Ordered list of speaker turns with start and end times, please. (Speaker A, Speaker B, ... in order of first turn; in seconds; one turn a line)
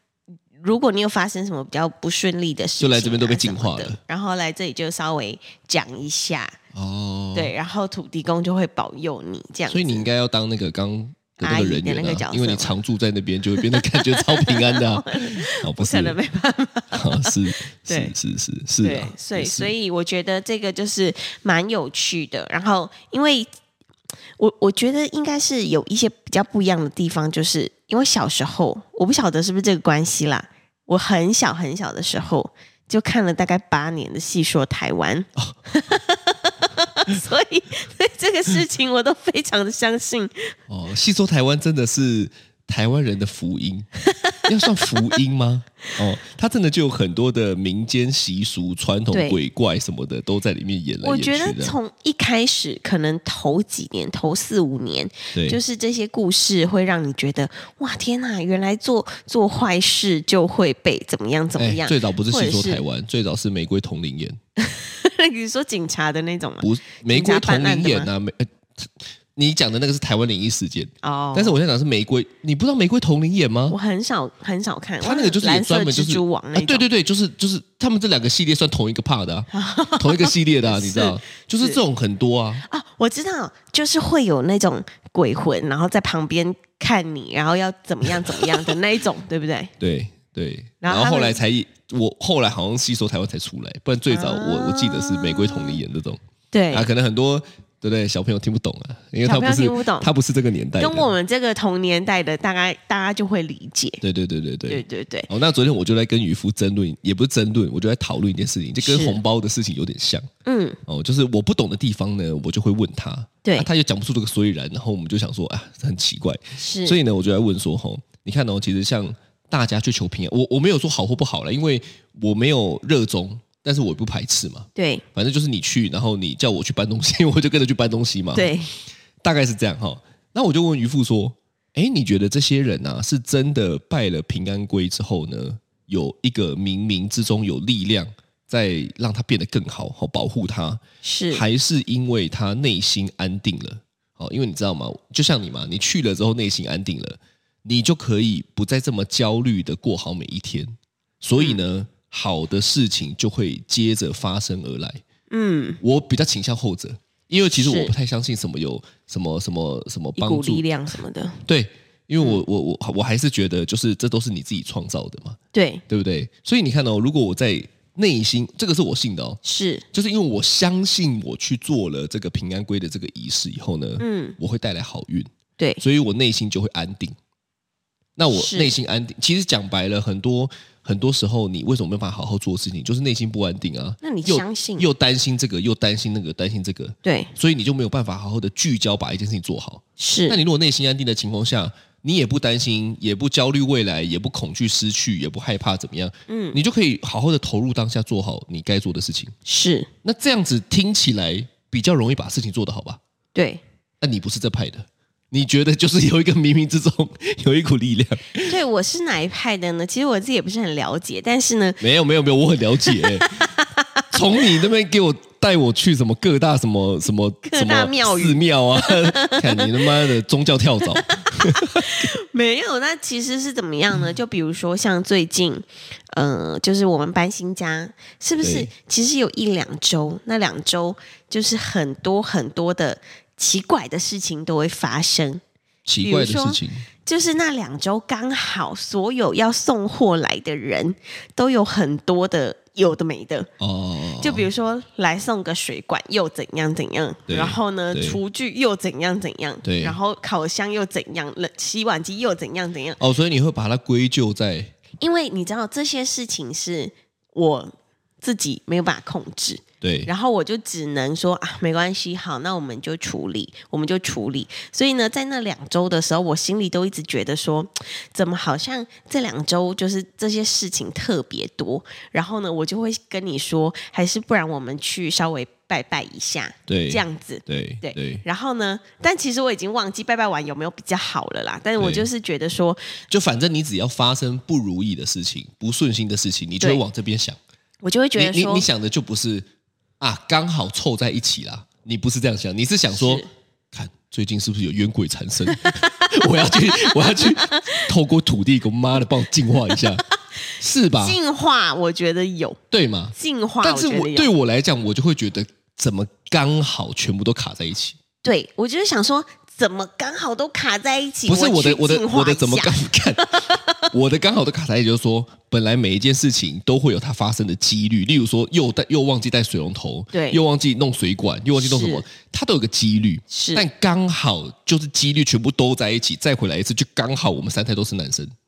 Speaker A: 0.6-6.6
Speaker B: 2.8-4.0
Speaker B: 6.7-7.5
Speaker A: 7.3-10.1
Speaker B: 9.7-16.2
Speaker A: 11.4-12.7
Speaker A: 13.5-18.1
Speaker B: 16.9-19.7
Speaker A: 18.8-23.5
Speaker A: 24.4-40.5
Speaker B: 40.7-43.9
Speaker A: 44.0-45.0
Speaker B: 44.5-51.8
Speaker A: 49.1-49.4
Speaker A: 51.0-62.8
Speaker B: 55.3-55.6
Speaker B: 61.6-64.4
Speaker A: 64.6-68.1
Speaker B: 66.6-73.8
Speaker A: 71.0-71.6
Speaker A: 73.7-76.8
Speaker B: 75.0-82.6
Speaker A: 79.5-81.8
Speaker A: 82.6-89.7
Speaker B: 88.3-88.7
Speaker B: 89.8-96.2
Speaker A: 90.8-91.4
Speaker A: 94.1-95.8
Speaker A: 96.5-96.9
Speaker B: 96.7-101.1
Speaker A: 99.2-100.1
Speaker A: 100.8-104.0
Speaker B: 104.0-110.3
Speaker A: 104.7-105.3
Speaker A: 108.8-109.2
Speaker A: 110.4-110.8
Speaker B: 110.9-128.5
Speaker A: 116.6-117.0
Speaker A: 124.8-125.0
Speaker A: 128.3-128.7
Speaker B: 129.2-155.0
Speaker A: 141.0-141.4
Speaker A: 151.4-151.6
Speaker A: 155.3-155.8
Speaker B: 155.8-160.6
Speaker A: 157.5-157.9
Speaker A: 160.2-161.4
Speaker B: 161.4-165.4
Speaker A: 165.5-165.8
Speaker B: 165.9-169.4
Speaker A: 169.4-169.8
Speaker B: 169.9-177.2
Speaker A: 174.0-174.4
Speaker B: 178.2-199.3
Speaker A: 178.3-178.7
Speaker A: 184.0-184.9
Speaker A: 187.0-187.3
Speaker A: 190.0-190.4
Speaker A: 196.3-196.6
Speaker A: 199.4-199.9
Speaker B: 200.0-203.0
Speaker A: 203.3-203.6
Speaker B: 204.0-208.5
Speaker A: 208.4-211.8
Speaker B: 211.8-213.5
Speaker A: 212.8-214.6
Speaker B: 214.1-222.1
Speaker A: 217.4-220.1
Speaker A: 220.9-235.4
Speaker B: 228.4-228.7
Speaker B: 235.9-236.9
Speaker A: 236.0-243.5
Speaker B: 243.6-244.4
Speaker A: 244.2-253.0
Speaker B: 247.3-248.2
Speaker B: 249.6-250.0
Speaker B: 253.0-254.7
Speaker A: 255.0-282.9
Speaker B: 259.8-260.1
Speaker B: 276.7-278.2
Speaker B: 281.8-282.1
Speaker B: 283.1-287.4
Speaker A: 287.8-288.7
Speaker B: 288.2-289.5
Speaker B: 290.0-300.0
Speaker A: 292.9-293.3
Speaker A: 295.5-297.9
Speaker B: 300.6-301.2
Speaker A: 301.0-302.6
Speaker B: 302.7-308.0
Speaker A: 303.1-304.3
Speaker A: 308.2-313.9
Speaker B: 311.3-313.4
Speaker B: 313.9-328.3
Speaker A: 320.1-320.4
Speaker A: 321.6-322.0
Speaker A: 323.3-323.6